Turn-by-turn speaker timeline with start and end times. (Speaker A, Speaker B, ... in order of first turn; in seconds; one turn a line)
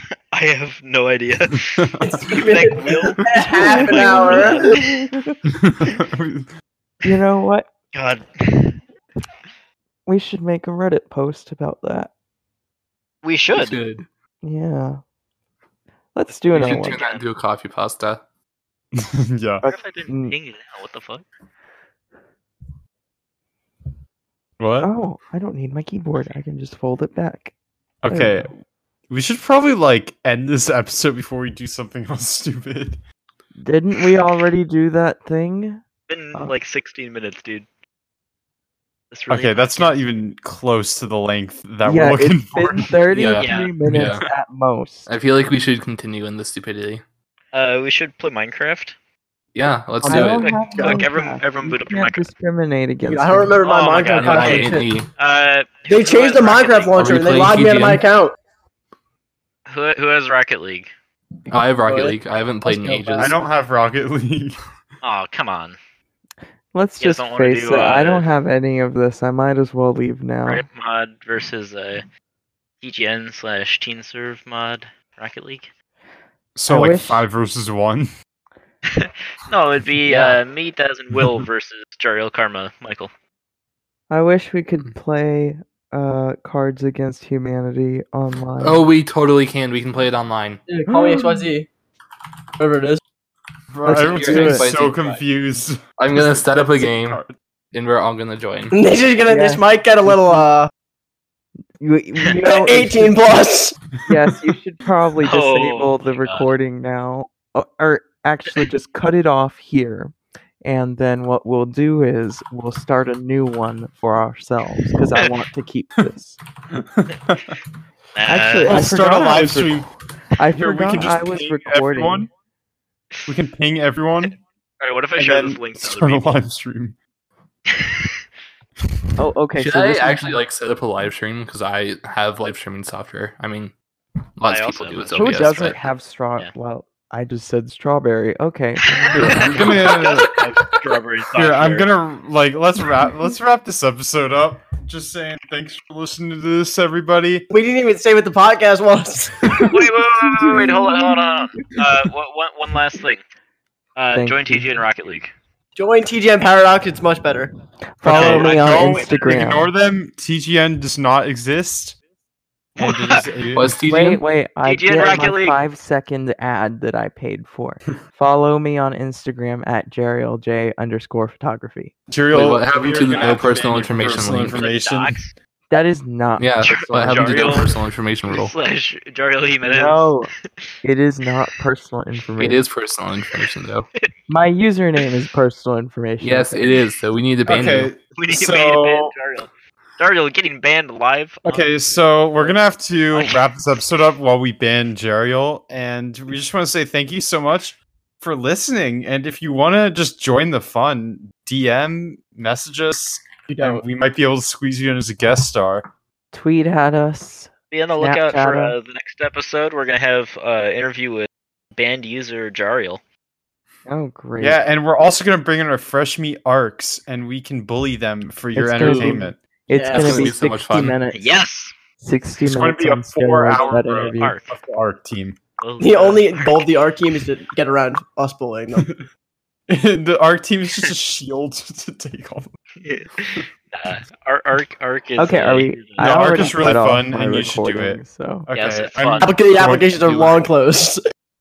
Speaker A: 0.3-1.7
Speaker B: 2.0-4.7
Speaker A: 2.3-5.0
Speaker C: 3.5-5.3
Speaker D: 5.6-6.5
Speaker C: 7.0-7.7
Speaker A: 7.9-8.8
Speaker C: 10.1-12.1
Speaker A: 13.2-13.8
Speaker E: 13.5-14.0
Speaker C: 14.4-15.0
Speaker C: 16.1-17.0
Speaker A: 16.3-17.2
Speaker E: 16.5-18.2
Speaker D: 19.0-19.6
Speaker C: 19.6-20.4
Speaker A: 19.6-21.2
Speaker D: 24.6-24.9
Speaker C: 24.8-27.5
Speaker D: 28.0-28.5
Speaker C: 28.1-28.5
Speaker D: 29.1-33.0
Speaker C: 33.6-35.8
Speaker A: 36.1-37.7
Speaker A: 39.1-40.0
Speaker D: 39.3-42.9
Speaker C: 41.8-45.1
Speaker E: 43.1-44.2
Speaker A: 43.3-43.8
Speaker E: 45.1-47.0
Speaker A: 47.5-49.0
Speaker E: 49.5-50.5
Speaker B: 50.0-51.0
Speaker C: 50.0-53.6
Speaker A: 50.3-52.3
Speaker B: 53.1-54.9
Speaker A: 53.6-57.1
Speaker E: 54.0-55.1
Speaker B: 55.9-58.4
Speaker E: 57.0-58.0
Speaker A: 59.7-60.9
Speaker E: 61.5-63.3
Speaker B: 61.8-63.3
Speaker D: 63.2-64.6
Speaker A: 65.0-65.8
Speaker C: 66.7-70.6
Speaker A: 67.0-68.3
Speaker A: 70.4-72.0
Speaker A: 72.8-75.7
Speaker D: 76.5-78.1
Speaker C: 76.7-77.2
Speaker A: 78.9-83.1
Speaker E: 80.1-80.4
Speaker C: 84.1-88.8
Speaker E: 88.6-90.6
Speaker B: 90.7-91.7
Speaker C: 90.9-91.5
Speaker B: 92.6-93.0
Speaker D: 93.7-97.3
Speaker C: 93.8-94.7
Speaker E: 93.8-95.2
Speaker E: 96.0-97.2
Speaker E: 97.7-98.7
Speaker B: 98.7-100.7
Speaker C: 99.3-100.5
Speaker C: 101.8-103.1
Speaker B: 102.4-103.8
Speaker C: 104.1-116.4
Speaker A: 105.2-106.5
Speaker D: 116.7-117.5
Speaker A: 118.1-118.8
Speaker C: 118.3-122.3
Speaker D: 118.7-119.9
Speaker D: 120.5-122.3
Speaker D: 123.3-124.3
Speaker A: 124.8-126.4
Speaker D: 125.2-127.0
Speaker A: 127.7-128.1
Speaker C: 129.2-130.4
Speaker E: 129.6-133.7
Speaker E: 134.4-135.8
Speaker A: 134.4-136.5
Speaker C: 135.1-139.5
Speaker A: 139.1-141.9
Speaker D: 139.1-140.3
Speaker D: 141.3-147.5
Speaker B: 147.5-149.5
Speaker A: 149.7-153.2
Speaker C: 150.2-151.7
Speaker A: 153.9-155.3
Speaker C: 154.1-154.8
Speaker B: 155.8-157.5
Speaker C: 158.0-159.7
Speaker D: 158.0-162.0
Speaker A: 158.1-159.3
Speaker D: 162.8-163.8
Speaker A: 162.8-163.2
Speaker E: 163.5-164.2
Speaker C: 163.9-171.9
Speaker A: 164.6-165.6
Speaker D: 172.1-175.2
Speaker E: 172.3-174.7
Speaker A: 172.7-175.3
Speaker C: 175.7-177.6
Speaker E: 176.4-178.5
Speaker A: 176.6-177.7
Speaker A: 178.3-180.1
Speaker C: 179.6-180.3
Speaker C: 180.8-182.6
Speaker E: 182.4-183.8
Speaker A: 183.5-184.0
Speaker C: 184.3-186.7
Speaker E: 186.2-187.9
Speaker D: 187.4-189.1
Speaker A: 188.1-192.6
Speaker D: 191.4-205.8
Speaker A: 193.1-193.5
Speaker B: 203.5-203.8
Speaker C: 206.3-208.8
Speaker A: 207.7-213.0
Speaker C: 213.9-214.6
Speaker D: 214.4-219.4
Speaker C: 218.5-221.4
Speaker E: 218.8-219.2
Speaker B: 219.7-220.2
Speaker E: 219.9-221.0
Speaker A: 221.1-221.7
Speaker C: 222.0-224.3
Speaker D: 222.4-225.4
Speaker A: 223.6-224.5
Speaker A: 225.6-226.6
Speaker B: 225.8-228.9
Speaker D: 229.7-232.5
Speaker A: 232.8-236.7
Speaker C: 235.2-238.5
Speaker D: 236.0-240.4
Speaker A: 238.5-239.3
Speaker B: 239.2-241.0